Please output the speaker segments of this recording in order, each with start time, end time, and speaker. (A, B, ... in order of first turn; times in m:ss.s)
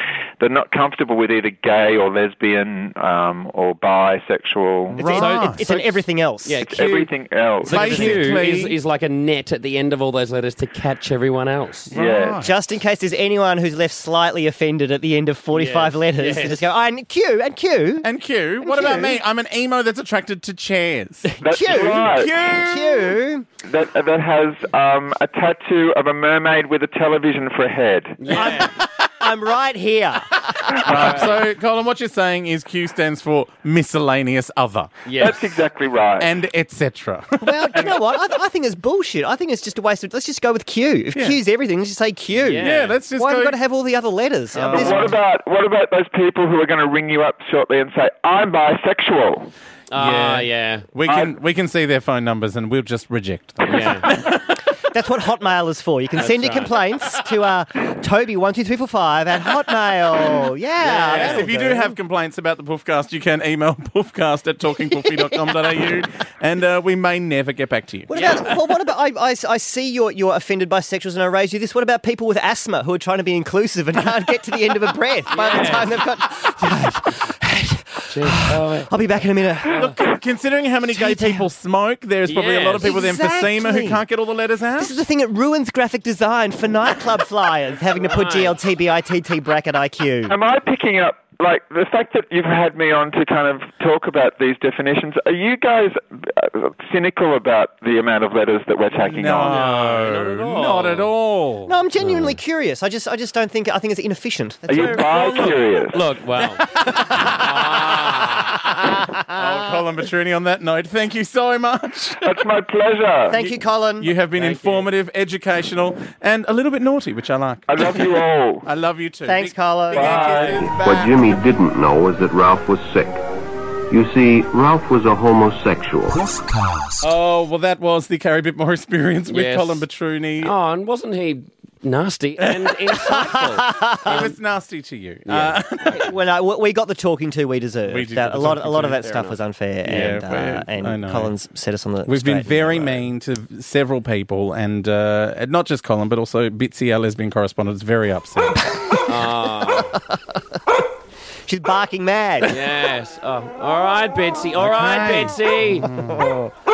0:00.4-0:05.0 A
0:04.9-0:06.6 B
0:05.0-0:05.6 C
0:05.1-0:07.1 D
0:06.6-0:08.1 A
0:07.6-0:11.9 D
0:07.6-0:08.8 C
0:11.9-0:12.5 C
0:11.9-0:12.4 A
0:12.4-0:18.1 B
0:15.5-0:16.6 D
0:18.0-0:23.2 C
0:18.6-0:19.2 B
0:21.2-0:23.5 B
0:21.4-0:22.4 A
0:23.6-0:28.5 A
0:28.2-0:28.7 D
0:28.3-0:30.9 B
0:30.8-0:35.2 C
0:31.0-0:31.3 D
0:35.0-0:35.4 D
0:35.2-0:36.3 A
0:36.2-0:37.7 C
0:37.4-0:45.1 B
0:41.1-0:41.4 C
0:42.4-0:43.0 D
0:42.6-0:43.6 C
0:44.5-0:45.2 C
0:44.7-0:49.5 A
0:49.9-0:50.8 D
0:49.9-0:54.6 C
0:51.0-0:51.3 A
0:53.6-0:54.1 D
0:54.9-1:01.9 B
0:56.2-0:56.8 D
1:00.8-1:01.5 D
1:00.8-1:08.2 C
1:05.0-1:05.8 B
1:08.1-1:19.9 B
1:08.1-1:08.5 D
1:15.3-1:16.0 D
1:18.1-1:18.9 D
1:19.7-1:25.0 C
1:20.9-1:21.5 B
1:22.3-1:22.9 D
1:22.8-1:24.0 B
1:24.8-1:30.3 B
1:27.9-1:28.6 D
1:30.3-1:39.6 A
1:39.0-1:41.7 C
1:39.4-1:41.1 D
1:41.6-1:45.6 B
1:42.0-1:42.4 D
1:44.7-1:46.0 A
1:45.0-1:46.7 D
1:46.6-1:52.4 C
1:47.2-1:48.6 D
1:48.9-1:49.4 B
1:52.2-1:53.4 A
1:53.3-1:54.1 B
1:53.3-2:01.4 C
1:54.4-1:54.8 D
1:57.7-1:58.6 A
1:59.2-2:00.4 B
1:59.9-2:00.7 A
2:00.8-2:03.2 E
2:03.9-2:06.8 E
2:07.0-2:10.5 C
2:09.3-2:09.8 D
2:10.4-2:14.3 D
2:12.4-2:12.8 C
2:13.0-2:14.3 B
2:14.0-2:16.1 C
2:15.2-2:15.6 D
2:15.8-2:23.1 B
2:17.8-2:19.1 C
2:18.9-2:20.2 D
2:19.8-2:21.3 C
2:22.0-2:28.8 C
2:28.6-2:30.4 B
2:29.0-2:30.0 D
2:31.4-2:32.6 B
2:32.4-2:35.9 D
2:34.5-2:36.4 C
2:35.9-2:36.4 B